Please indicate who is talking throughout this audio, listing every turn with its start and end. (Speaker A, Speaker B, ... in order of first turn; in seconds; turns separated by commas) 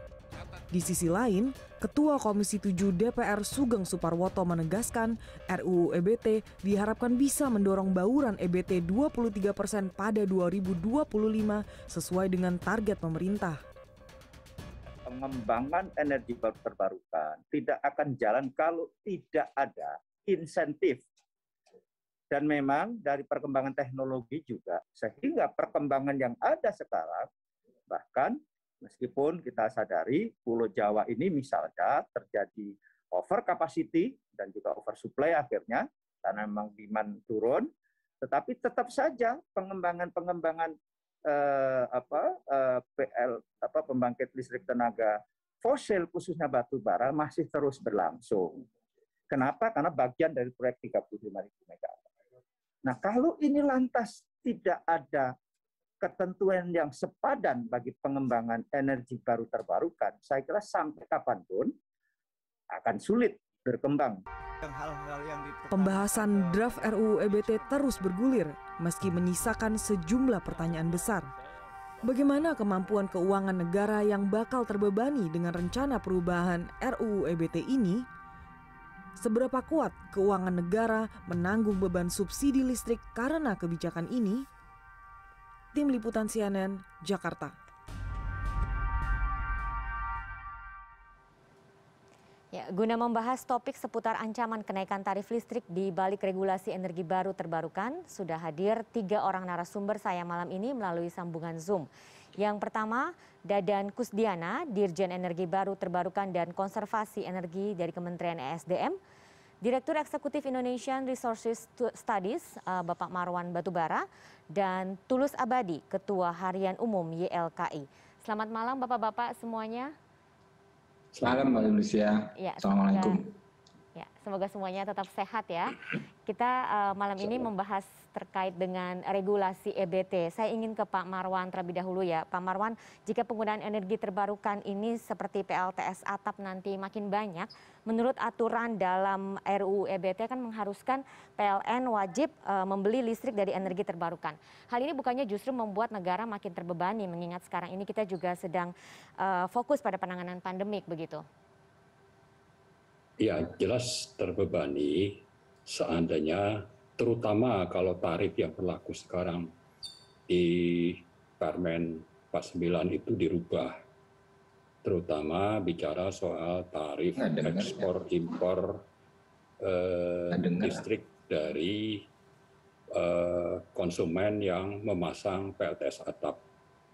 Speaker A: 0.7-13.6, Speaker B: 15.1-21.0, Speaker B: 22.3-27.3, Speaker B: 27.9-37.7, Speaker B: 38.2-40.7, Speaker B: 41.3-48.7, Speaker B: 49.3-52.0, Speaker B: 52.8-55.3, Speaker B: 56.0-61.7, Speaker B: 62.7-64.2, Speaker B: 64.8-66.9, Speaker A: 65.7-71.3, Speaker A: 72.0-78.0, Speaker A: 79.2-84.4, Speaker A: 85.7-87.5, Speaker C: 92.5-109.0, Speaker C: 109.6-119.9, Speaker D: 121.1-121.6, Speaker E: 121.2-123.3, Speaker C: 122.4-123.2, Speaker C: 124.0-151.2, Speaker D: 153.2-159.5, Speaker D: 160.3-163.8, Speaker D: 164.8-168.8, Speaker E: 167.2-167.9, Speaker D: 169.6-172.1, Speaker E: 170.3-170.8, Speaker D: 172.9-176.4